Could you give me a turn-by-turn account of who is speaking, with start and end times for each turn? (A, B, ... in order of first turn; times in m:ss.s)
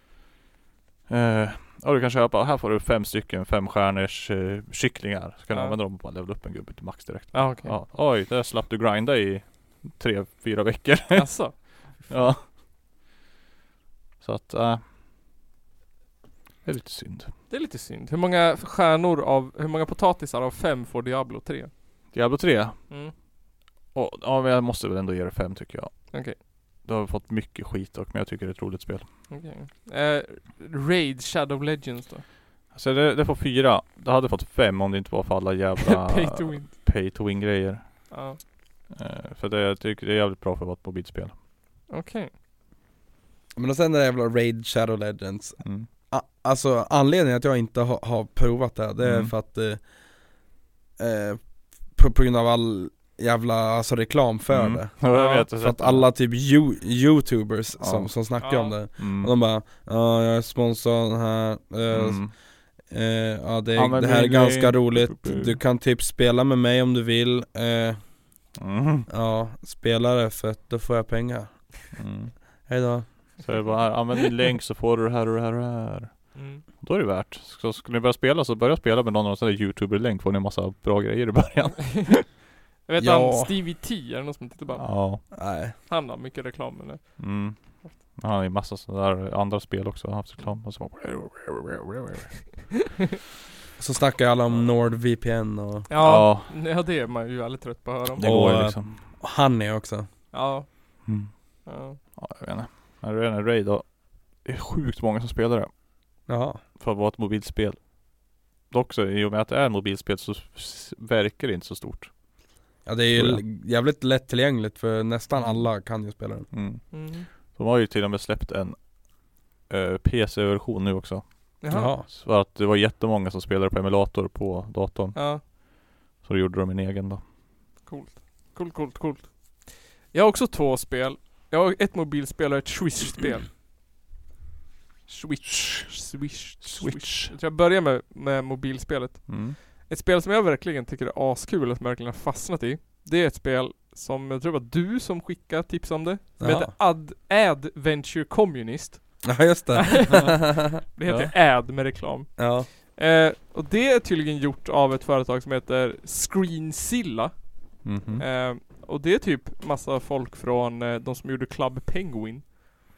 0:01.1-0:12.4 A
0:05.5-0:05.8 B
0:07.3-0:07.8 B
0:11.1-0:12.3 B
0:14.2-0:14.8 A
0:16.6-0:17.3 A
0:17.5-0:21.7 B
0:22.1-0:22.8 A
0:23.9-0:29.1 A
0:26.1-0:26.4 B
0:29.3-0:32.2 B
0:32.7-0:38.1 A
0:35.9-0:36.7 B
0:38.1-0:38.4 B
0:38.9-0:41.4 A
0:41.9-0:42.3 B
0:43.6-0:49.8 C
0:49.0-0:49.3 A
0:51.0-1:08.0 C
0:54.5-0:56.1 A
0:55.1-0:55.5 B
0:57.8-0:58.1 A
0:58.4-0:58.8 B
0:59.0-0:59.3 A
1:01.9-1:02.3 A
1:03.8-1:05.6 A
1:08.6-1:09.1 A
1:09.1-1:11.7 C
1:12.0-1:12.3 A
1:12.7-1:13.4 C
1:13.4-1:22.2 A
1:16.4-1:16.6 B
1:22.9-1:27.9 B
1:23.0-1:23.5 C
1:24.8-1:25.2 A
1:25.3-1:25.7 C
1:27.2-1:32.5 A
1:33.8-1:35.9 C
1:35.9-1:38.2 B
1:36.0-1:36.5 A
1:38.2-1:39.0 A
1:38.2-1:40.1 C
1:40.3-1:40.7 B
1:41.1-1:41.3 A
1:41.7-1:42.0 B
1:42.2-1:45.7 A
1:46.3-1:46.6 C
1:46.8-1:47.9 A
1:48.7-1:52.1 A
1:52.9-1:56.5 C
1:53.2-1:53.4 A
1:56.5-1:58.9 A
1:56.9-1:57.3 B
1:59.7-2:05.7 A
2:01.6-2:01.9 B
2:01.7-2:02.1 C
2:05.2-2:05.4 B
2:06.2-2:07.2 A
2:07.8-2:13.5 B
2:15.1-2:37.4 B
2:15.6-2:15.9 A
2:16.6-2:17.3 A
2:19.3-2:19.6 A
2:26.4-2:26.7 C
2:29.2-2:30.8 C
2:31.1-2:31.3 A
2:32.4-2:32.7 C
2:37.8-2:38.2 A
2:38.2-2:42.5 B